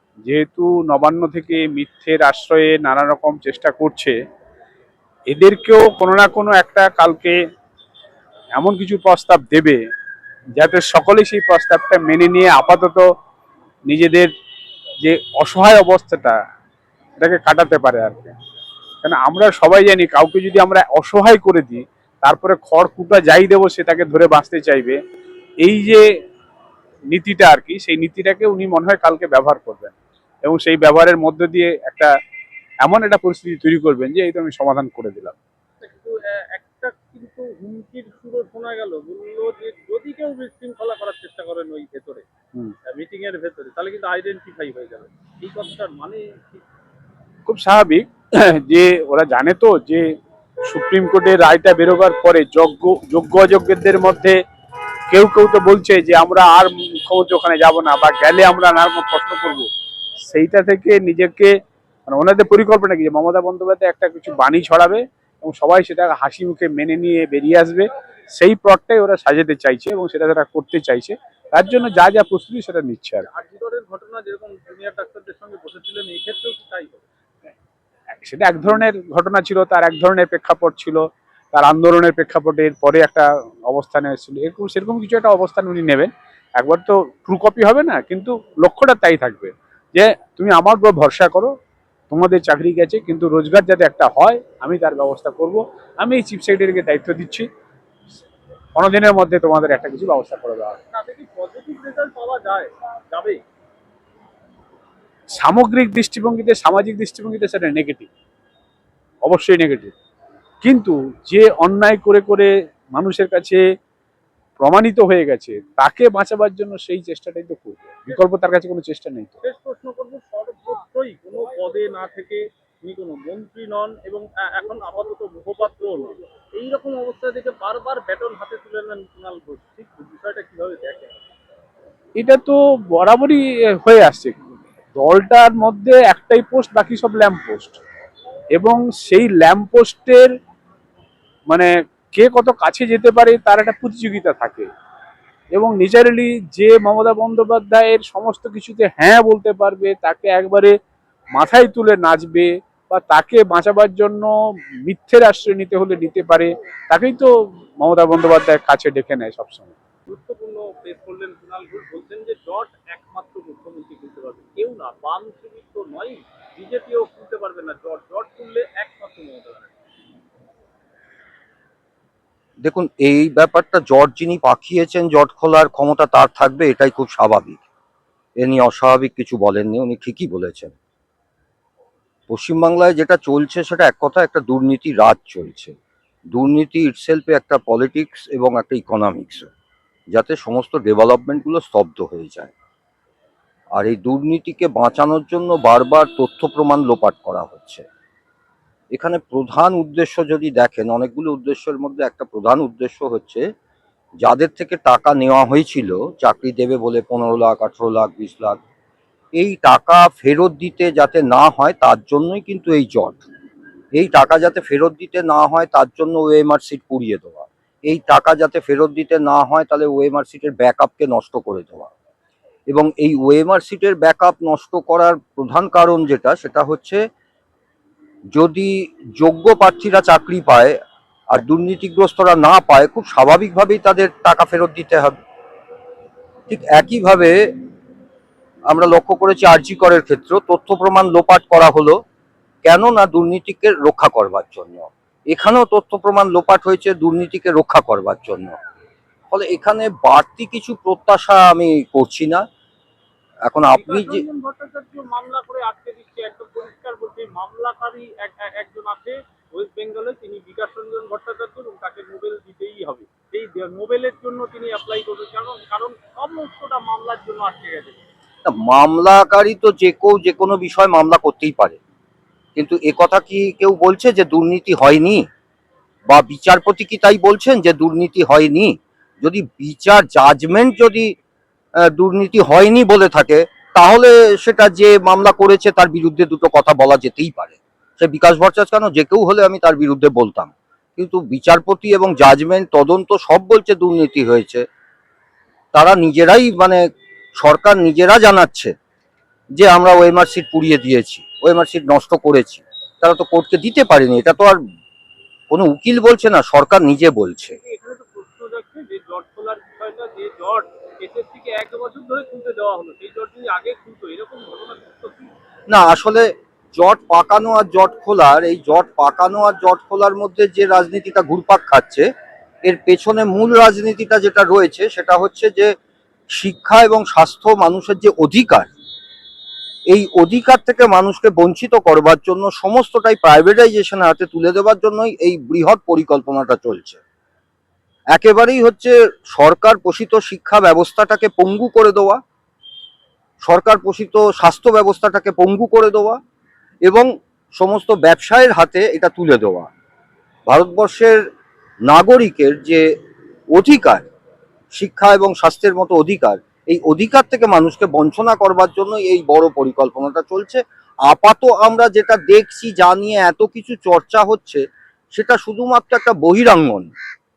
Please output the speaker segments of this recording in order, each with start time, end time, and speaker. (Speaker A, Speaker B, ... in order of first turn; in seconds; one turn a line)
Speaker A: 0.2-4.2
Speaker A: 5.3-7.4
Speaker A: 8.5-9.8
Speaker A: 10.6-13.0
Speaker A: 13.9-14.3
Speaker A: 15.0-16.4
Speaker A: 17.2-18.3
Speaker A: 19.0-25.0
Speaker A: 25.6-26.0
Speaker A: 27.1-32.1
Speaker A: 32.8-35.4
Speaker B: 35.8-42.2
Speaker B: 42.9-46.6
Speaker A: 47.5-50.0
Speaker A: 50.7-54.4
Speaker A: 55.1-59.7
Speaker A: 60.2-61.5
Speaker A: 62.1-67.9
Speaker A: 68.4-73.3
Speaker B: 73.2-77.0
Speaker A: 78.1-91.5
Speaker A: 92.1-97.5
Speaker A: 98.8-100.8
Speaker B: 100.9-103.4
Speaker A: 105.3-108.1
Speaker A: 109.2-109.9
Speaker A: 110.6-113.6
Speaker A: 114.6-119.3
Speaker B: 119.4-131.2
Speaker A: 132.2-134.4
Speaker A: 134.9-137.8
Speaker A: 138.6-140.3
Speaker A: 141.5-144.7
Speaker A: 145.5-150.7
Speaker A: 151.3-154.3
Speaker A: 154.8-159.7
Speaker B: 160.1-169.7
Speaker C: 172.6-177.6
Speaker C: 178.4-180.7
Speaker C: 182.3-185.7
Speaker C: 186.3-189.5
Speaker C: 190.1-192.5
Speaker C: 193.8-197.8
Speaker C: 198.9-203.4
Speaker C: 204.2-208.6
Speaker C: 209.4-213.2
Speaker C: 214.0-221.9
Speaker C: 222.7-227.0
Speaker C: 228.3-230.8
Speaker C: 231.3-235.2
Speaker C: 236.5-237.4
Speaker C: 238.7-242.0
Speaker C: 242.6-248.6
Speaker C: 249.3-252.4
Speaker C: 253.5-254.2
Speaker B: 253.7-268.0
Speaker C: 268.4-271.8
Speaker C: 272.6-275.2
Speaker C: 276.1-281.1
Speaker C: 281.9-294.6
Speaker C: 295.7-296.8
Speaker C: 297.4-298.7
Speaker C: 299.6-304.6
Speaker C: 305.5-307.6
Speaker B: 307.5-315.3
Speaker C: 315.7-322.1
Speaker C: 322.6-325.7
Speaker C: 326.3-328.7
Speaker C: 329.9-337.0
Speaker C: 338.1-342.2
Speaker C: 343.4-346.2
Speaker C: 347.6-349.7
Speaker C: 350.5-351.2
Speaker C: 351.9-352.8
Speaker C: 353.5-354.1
Speaker C: 354.7-364.6
Speaker C: 365.1-366.9